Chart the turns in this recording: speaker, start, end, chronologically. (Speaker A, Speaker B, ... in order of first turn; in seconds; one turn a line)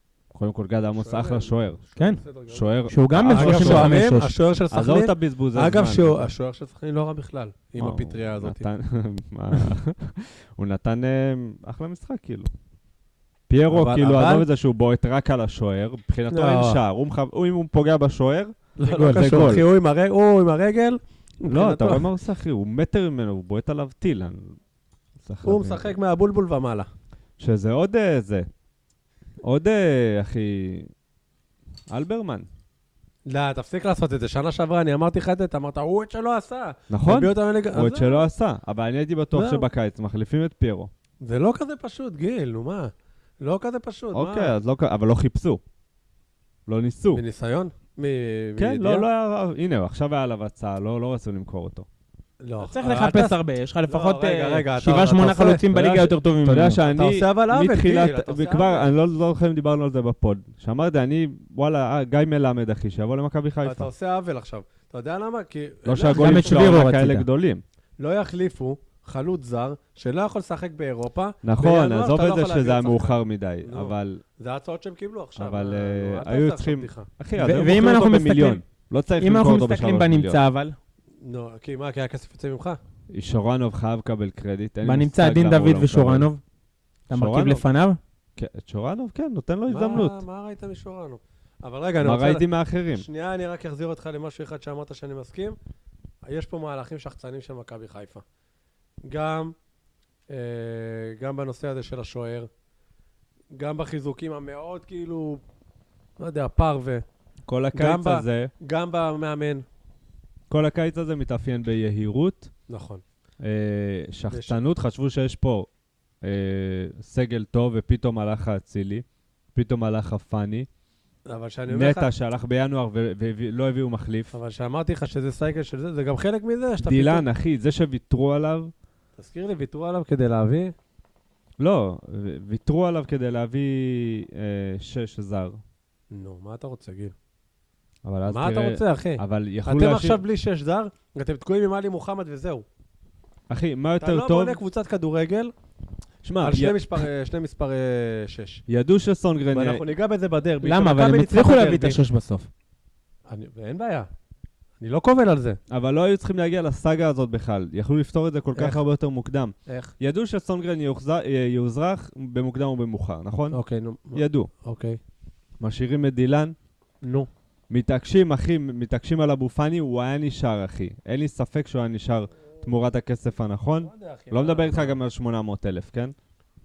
Speaker A: 0.3-1.8
Speaker B: 1.0-2.8
Speaker A: 2.5-4.0
Speaker C: 2.9-4.3
Speaker B: 3.3-8.7
Speaker A: 4.7-6.3
Speaker A: 7.8-12.5
Speaker A: 13.5-19.7
Speaker B: 13.7-14.5
Speaker B: 16.3-16.8
Speaker B: 18.8-22.1
Speaker C: 18.9-19.5
Speaker A: 21.5-24.6
Speaker A: 25.2-25.9
Speaker B: 25.4-26.9
Speaker A: 27.4-28.5
Speaker A: 29.4-30.9
Speaker A: 31.9-32.5
Speaker B: 33.3-38.3
Speaker A: 36.9-40.9
Speaker B: 39.3-39.7
Speaker B: 41.2-44.5
Speaker A: 44.1-45.6
Speaker A: 46.7-47.2
Speaker B: 47.1-49.1
Speaker A: 48.6-51.9
Speaker B: 52.4-55.6
Speaker C: 52.6-56.8
Speaker A: 55.7-63.9
Speaker B: 56.8-58.9
Speaker B: 63.6-66.8
Speaker A: 65.8-67.6
Speaker C: 66.2-67.3
Speaker B: 68.0-77.1
Speaker A: 71.4-74.2
Speaker A: 75.4-80.4
Speaker C: 77.4-78.6
Speaker C: 79.2-80.8
Speaker B: 81.2-82.8
Speaker A: 83.1-86.3
Speaker C: 84.8-86.4
Speaker C: 87.1-88.0
Speaker A: 87.1-87.6
Speaker A: 88.4-90.2
Speaker B: 89.7-95.6
Speaker A: 92.0-93.1
Speaker B: 96.2-98.2
Speaker B: 99.0-99.5
Speaker B: 100.3-102.5
Speaker B: 103.5-105.4
Speaker B: 106.2-107.0
Speaker A: 107.5-108.5
Speaker B: 107.7-109.7
Speaker A: 110.5-112.5
Speaker B: 112.7-113.0
Speaker A: 113.4-115.7
Speaker B: 114.3-114.6
Speaker A: 116.2-120.7
Speaker B: 121.3-122.1
Speaker A: 121.7-124.4
Speaker B: 124.3-127.2
Speaker A: 126.8-128.7
Speaker B: 129.2-130.7
Speaker A: 131.6-135.6
Speaker B: 136.1-137.2
Speaker A: 138.1-140.2
Speaker B: 138.3-142.7
Speaker A: 143.5-144.6
Speaker B: 144.0-145.5
Speaker A: 146.2-147.1
Speaker B: 146.4-148.6
Speaker A: 148.7-149.8
Speaker B: 149.5-152.0
Speaker C: 150.6-152.5
Speaker B: 153.3-154.1
Speaker B: 154.8-155.6
Speaker A: 155.7-163.6
Speaker B: 158.6-158.8
Speaker B: 159.7-159.9
Speaker B: 163.5-165.0
Speaker A: 164.1-164.5
Speaker A: 165.6-166.6
Speaker B: 167.0-167.3
Speaker A: 167.7-176.2
Speaker B: 173.8-175.0